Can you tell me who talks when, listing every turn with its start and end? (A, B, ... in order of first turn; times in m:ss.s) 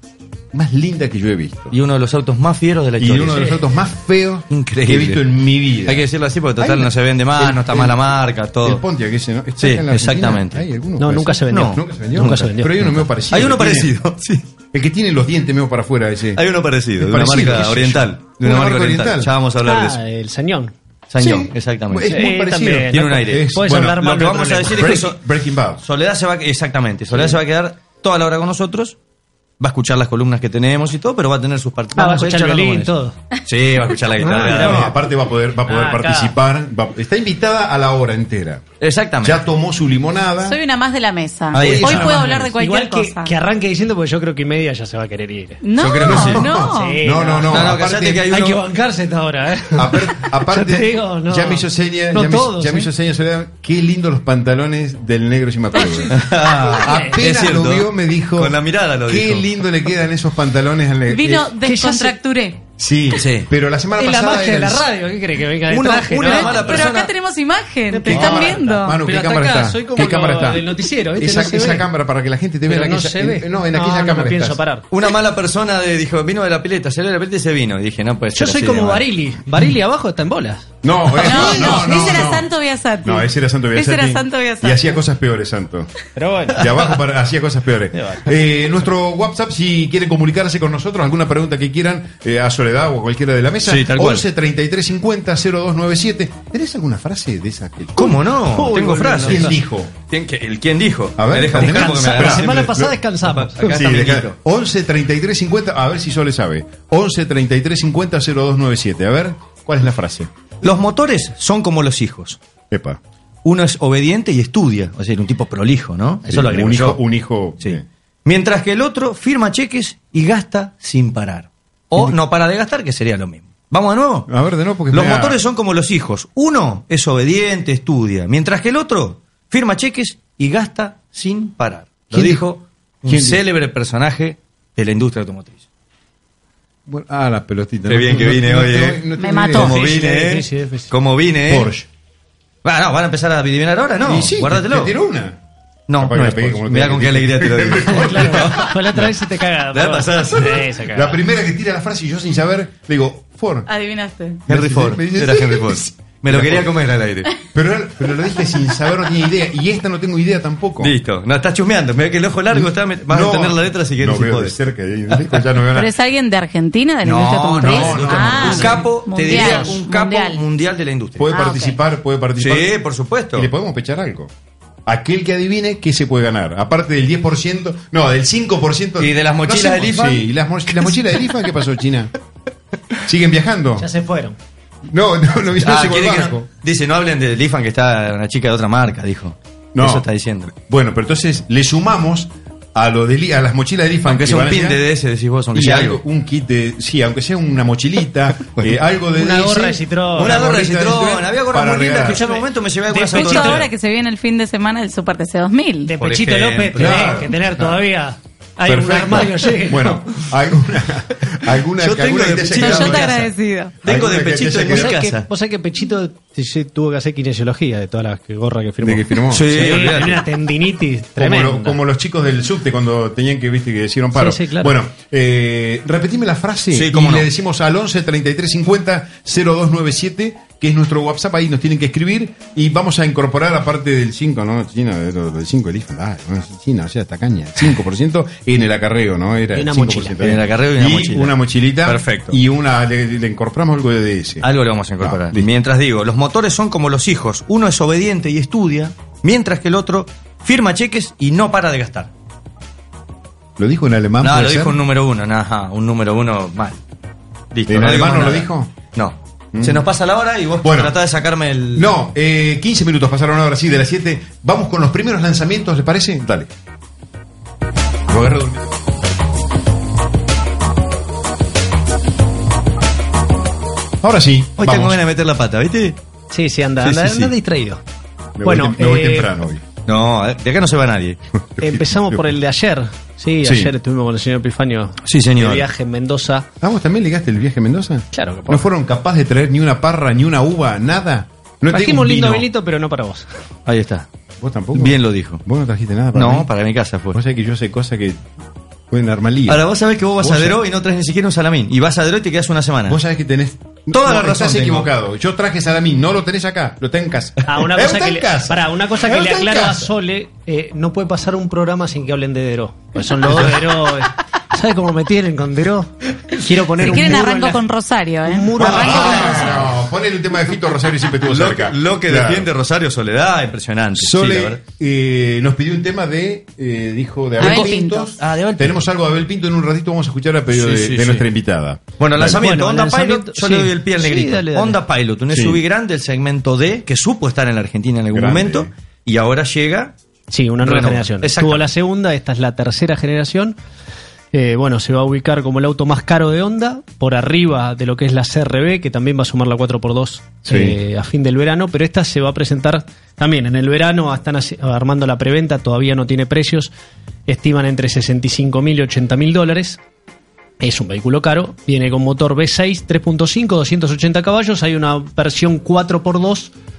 0:00.5-0:01.8 A
0:01.7-0:03.6 B
0:03.0-0:06.1 A
0:04.5-0:05.3 B
0:05.8-0:08.8 B
0:06.6-0:08.0 A
0:08.6-0:13.9 A
0:09.6-0:10.6 B
0:11.0-0:12.7 C
0:11.5-0:14.4 B
0:14.7-0:16.4 A
0:16.3-0:20.0 B
0:17.0-0:19.3 A
0:19.6-0:20.7 C
0:21.1-0:22.2 B
0:21.2-0:25.8 A
0:22.0-0:25.0 C
0:22.9-0:25.2 B
0:25.8-0:29.0 B
0:29.6-0:32.9 B
0:32.0-0:33.1 C
0:33.4-0:34.9 B
0:34.2-0:34.9 C
0:34.5-0:38.6 A
0:35.6-0:36.3 C
0:38.8-0:39.4 B
0:39.2-0:40.6 A
0:40.4-0:43.4 D
0:41.5-0:42.5 B
0:41.5-0:42.5 A
0:42.6-0:45.6 C
0:45.6-0:47.0 D
0:45.8-0:46.6 B
0:46.0-0:48.3 A
0:46.6-0:47.8 C
0:47.5-0:48.6 B
0:48.3-0:52.9 C
0:49.7-1:01.6 A
0:56.1-0:59.6 B
0:56.8-0:57.1 C
1:01.1-1:02.6 D
1:01.6-1:02.2 C
1:02.8-1:04.9 A
1:03.1-1:03.5 B
1:04.0-1:06.8 C
1:05.7-1:07.1 B
1:06.2-1:09.0 D
1:07.9-1:11.8 C
1:08.1-1:14.6 A
1:12.7-1:14.8 C
1:14.9-1:19.0 B
1:18.3-1:20.6 C
1:20.8-1:22.5 A
1:21.1-1:25.0 D
1:21.6-1:21.8 C
1:23.0-1:25.9 A
1:26.2-1:26.6 C
1:26.5-1:38.2 A
1:33.6-1:34.2 B
1:38.0-1:39.6 B
1:38.4-1:39.5 C
1:39.2-1:39.9 A
1:40.1-1:44.3 B
1:41.2-1:42.9 A
1:41.6-1:43.6 C
1:43.6-1:50.3 A
1:50.6-1:52.4 B
1:52.7-1:53.0 A
1:53.4-1:57.0 B
1:56.3-1:57.8 A
1:57.6-2:04.3 B
2:04.3-2:05.4 A
2:04.9-2:15.6 B
2:12.1-2:12.4 A
2:13.0-2:13.4 A
2:16.8-2:19.8 A
2:17.9-2:21.7 B
2:19.2-2:19.9 D
2:19.6-2:20.9 C
2:21.5-2:21.9 A
2:22.6-2:24.9 B
2:24.0-2:25.4 A
2:25.9-2:29.1 B
2:26.0-2:29.0 A
2:27.8-2:31.2 C
2:29.7-2:30.6 B
2:30.3-2:33.7 A
2:33.7-2:34.4 D
2:34.5-2:36.8 A
2:34.5-2:37.3 B
2:37.5-2:40.9 A
2:40.8-2:44.6 B
2:42.5-2:45.9 A
2:45.1-2:45.4 B
2:45.7-2:50.4 D
2:47.0-2:51.3 B
2:47.6-2:49.8 A
2:51.2-2:52.7 A
2:51.3-2:51.8 D
2:52.4-2:53.5 B
2:53.3-2:54.3 A
2:54.8-3:02.1 A
2:59.0-3:00.3 B
3:03.0-3:03.9 A
3:03.8-3:04.4 C
3:04.8-3:06.5 A
3:05.6-3:10.5 B
3:09.7-3:14.8 A
3:14.0-3:16.0 B
3:15.5-3:22.2 A
3:19.1-3:20.4 C
3:20.2-3:23.7 B
3:22.0-3:23.6 C
3:23.1-3:25.9 D
3:25.8-3:30.0 C
3:26.0-3:27.2 B
3:26.7-3:27.8 A
3:28.6-3:33.2 A
3:31.8-3:35.3 B
3:32.6-3:33.7 D
3:33.8-3:35.0 A
3:34.7-3:41.8 C
3:38.8-3:40.1 A
3:39.3-3:40.2 B
3:41.2-4:04.5 A
3:44.1-3:44.7 C
3:46.7-3:47.3 B
3:59.5-4:00.2 C
4:00.2-4:02.4 B
4:04.4-4:12.1 B
4:05.0-4:05.5 A
4:13.6-4:14.8 A
4:14.2-4:16.8 B
4:17.5-4:21.9 B
4:17.7-4:18.7 A
4:19.5-4:19.8 A
4:20.6-4:21.0 A
4:21.7-4:26.5 A
4:28.1-4:28.6 A
4:34.0-4:35.0 A
4:34.6-4:36.0 B
4:36.3-4:37.8 C
4:36.8-4:37.1 A
4:38.4-4:39.6 A
4:38.4-4:39.3 C
4:39.8-4:41.2 B
4:41.3-4:42.3 A
4:41.6-4:46.5 C
4:43.4-4:43.7 A
4:45.0-4:45.7 B
4:46.6-4:52.5 A
4:48.1-4:48.6 C
4:51.7-4:53.3 C
4:53.6-4:54.1 B
4:54.4-4:56.5 A
4:54.7-4:55.4 B
4:56.1-4:57.2 B
4:57.1-4:58.2 A
4:58.9-4:59.6 A
4:59.5-5:03.0 B
5:00.2-5:00.6 A
5:02.9-5:09.9 A
5:03.9-5:04.9 B
5:07.5-5:17.6 C
5:16.8-5:19.6 D
5:18.2-5:19.5 C
5:18.5-5:22.5 A
5:21.2-5:24.6 B
5:23.9-5:32.4 A
5:27.4-5:27.7 B
5:27.4-5:28.2 D
5:28.2-5:28.7 C
5:30.5-5:31.2 B
5:32.0-5:39.9 B
5:32.2-5:34.8 C
5:35.3-5:35.6 A
5:38.1-5:38.7 A
5:40.3-5:43.6 C
5:40.6-5:41.6 B
5:44.3-5:56.7 C
5:50.4-5:50.8 A
5:57.3-5:59.8 C
6:00.6-6:06.5 C